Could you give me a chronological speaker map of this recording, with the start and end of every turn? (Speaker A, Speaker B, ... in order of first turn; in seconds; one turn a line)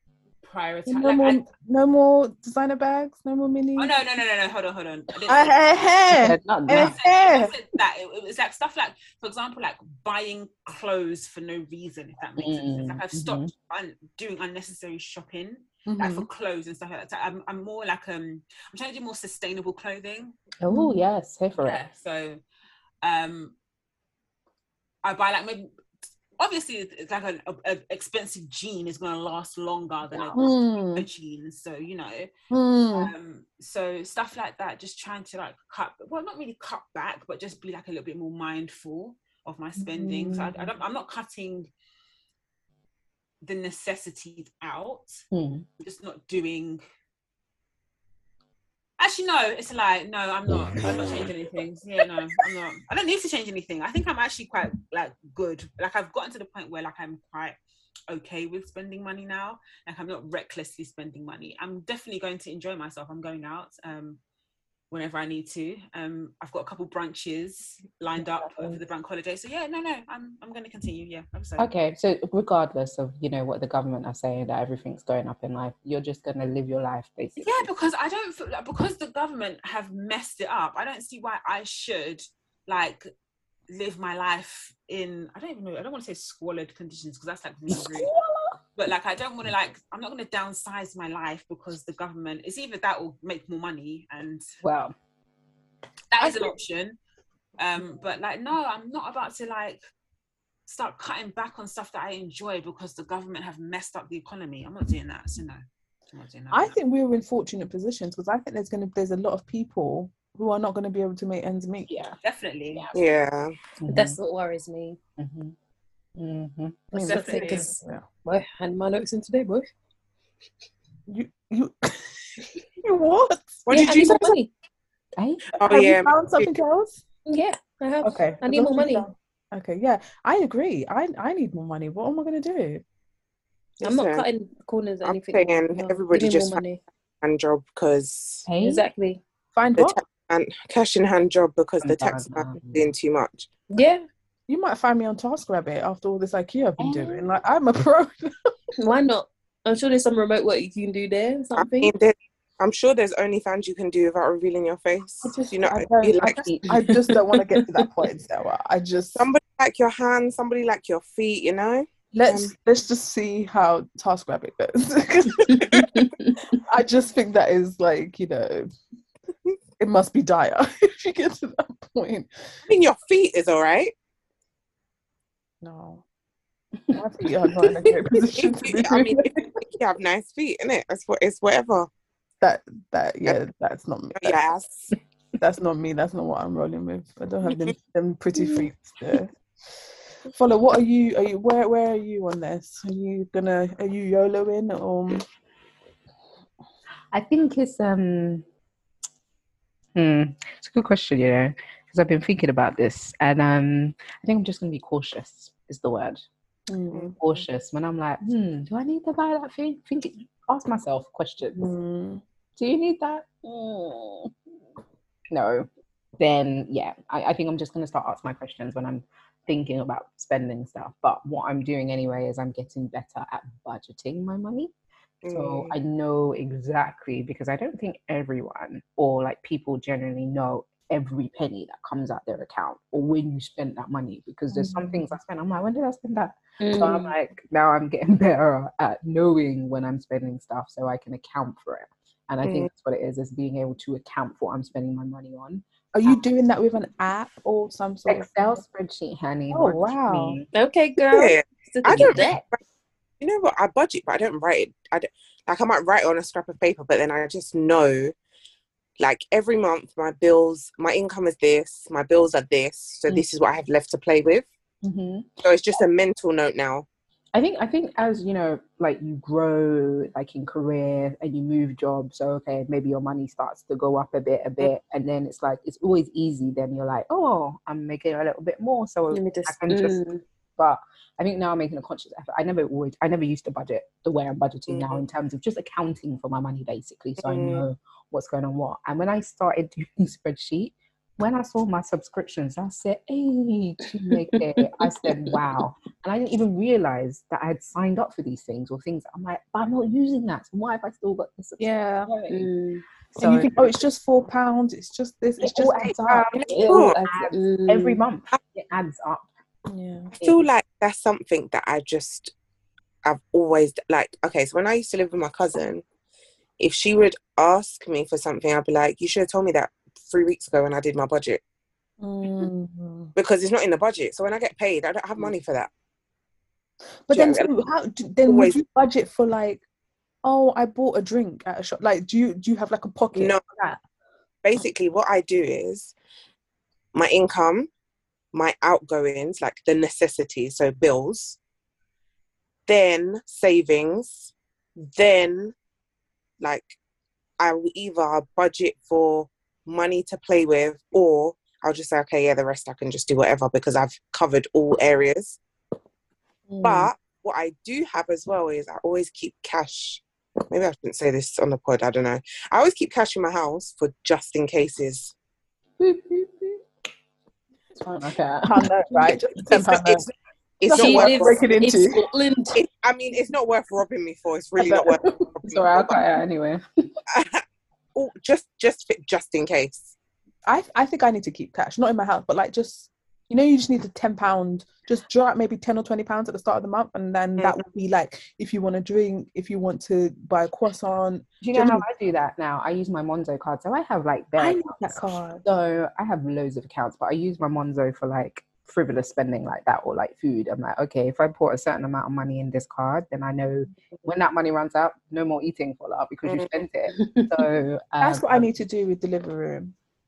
Speaker A: 0.4-1.4
Speaker B: 0.9-3.9
Speaker A: 3.8-5.9
Speaker B: 5.3-7.5
Speaker C: 6.1-7.0
Speaker A: 6.7-20.4
Speaker C: 12.4-13.5
Speaker B: 15.9-16.3
Speaker C: 20.6-21.8
Speaker B: 20.7-21.0
Speaker A: 21.6-22.4
Speaker A: 23.0-23.5
Speaker A: 25.0-25.7
Speaker A: 26.4-32.3
Speaker B: 30.4-31.1
Speaker B: 32.5-33.1
Speaker A: 32.9-41.7
Speaker C: 40.0-40.3
Speaker B: 40.2-40.5
Speaker A: 43.4-45.2
Speaker C: 45.3-45.6
Speaker A: 45.8-46.8
Speaker A: 49.0-57.5
Speaker A: 58.1-64.2
Speaker A: 64.9-71.7
Speaker C: 68.2-68.8
Speaker C: 71.6-77.7
Speaker A: 77.4-83.1
Speaker A: 83.7-88.1
Speaker C: 87.7-88.5
Speaker A: 88.8-94.5
Speaker C: 94.6-94.9
Speaker A: 96.1-97.0
Speaker A: 97.6-99.8
Speaker A: 100.7-105.6
Speaker A: 106.1-106.8
Speaker B: 106.5-111.9
Speaker C: 111.9-112.2
Speaker A: 112.2-112.9
Speaker D: 112.9-113.5
Speaker C: 113.8-114.2
Speaker E: 113.9-115.0
Speaker C: 115.2-115.5
Speaker C: 116.2-117.5
Speaker A: 116.9-117.7
Speaker E: 116.9-119.7
Speaker B: 117.0-118.0
Speaker B: 121.1-124.3
Speaker D: 123.7-124.3
Speaker E: 123.7-124.5
Speaker C: 125.2-125.4
Speaker D: 125.6-126.5
Speaker B: 125.7-127.0
Speaker E: 127.3-129.1
Speaker B: 128.0-132.8
Speaker D: 133.8-134.2
Speaker E: 133.8-136.8
Speaker D: 135.0-136.6
Speaker D: 137.2-138.4
Speaker C: 138.5-138.9
Speaker E: 138.6-139.2
Speaker B: 139.5-140.0
Speaker D: 139.8-143.5
Speaker C: 141.8-142.9
Speaker E: 143.7-144.0
Speaker B: 144.5-148.3
Speaker C: 146.8-147.3
Speaker E: 148.8-151.9
Speaker D: 151.6-156.4
Speaker B: 155.2-159.2
Speaker C: 156.3-156.7
Speaker E: 156.9-157.6
Speaker D: 159.1-162.5
Speaker B: 162.1-168.7
Speaker E: 165.5-166.4
Speaker B: 169.8-172.3
Speaker D: 172.7-173.9
Speaker B: 175.6-176.0
Speaker B: 176.9-179.4
Speaker C: 177.6-177.9
Speaker D: 178.3-181.9
Speaker B: 182.4-184.4
Speaker D: 184.2-184.9
Speaker B: 185.4-189.3
Speaker B: 190.3-195.2
Speaker C: 197.1-198.4
Speaker C: 199.9-206.2
Speaker B: 206.7-207.2
Speaker C: 207.2-211.7
Speaker B: 211.5-212.2
Speaker C: 212.6-214.3
Speaker C: 215.3-215.7
Speaker C: 216.2-224.7
Speaker D: 225.2-225.8
Speaker C: 225.3-246.2
Speaker B: 234.5-235.0
Speaker E: 236.6-237.1
Speaker D: 242.4-242.7
Speaker B: 245.9-248.4
Speaker C: 248.1-250.4
Speaker B: 249.5-250.4
Speaker E: 250.5-252.4
Speaker D: 251.0-252.6
Speaker C: 251.9-252.3
Speaker D: 253.2-258.1
Speaker D: 259.0-264.5
Speaker C: 264.8-265.3
Speaker D: 265.4-266.9
Speaker C: 267.3-280.0
Speaker E: 279.1-280.2
Speaker C: 280.6-302.5
Speaker D: 284.7-285.0
Speaker D: 287.2-287.6
Speaker E: 294.3-295.3
Speaker B: 301.6-302.1
Speaker E: 302.3-302.8
Speaker C: 303.1-303.7
Speaker B: 303.2-306.4
Speaker C: 305.4-309.3
Speaker D: 306.3-307.0
Speaker E: 306.5-308.0
Speaker B: 309.7-310.1
Speaker C: 310.2-310.4
Speaker D: 310.2-312.3
Speaker D: 313.0-315.8
Speaker D: 316.6-321.4
Speaker B: 322.0-323.1
Speaker D: 323.1-325.7
Speaker B: 327.1-329.6
Speaker D: 327.1-327.5
Speaker D: 328.2-328.6
Speaker B: 330.2-333.8
Speaker D: 333.1-333.4
Speaker D: 334.4-335.9
Speaker D: 336.9-337.7
Speaker D: 338.3-341.4
Speaker D: 342.7-345.5
Speaker D: 346.4-346.8
Speaker D: 347.4-355.4
Speaker E: 356.6-356.9
Speaker D: 356.6-365.1
Speaker C: 365.8-366.6
Speaker C: 367.8-369.1
Speaker B: 368.4-370.1
Speaker D: 369.4-371.4
Speaker B: 370.7-372.0
Speaker E: 370.7-372.6
Speaker D: 372.5-376.0
Speaker C: 374.6-376.6
Speaker D: 377.1-377.4
Speaker D: 377.9-379.9
Speaker B: 380.4-391.9
Speaker C: 391.4-408.5
Speaker B: 394.4-395.4
Speaker E: 406.9-407.4
Speaker B: 408.0-409.7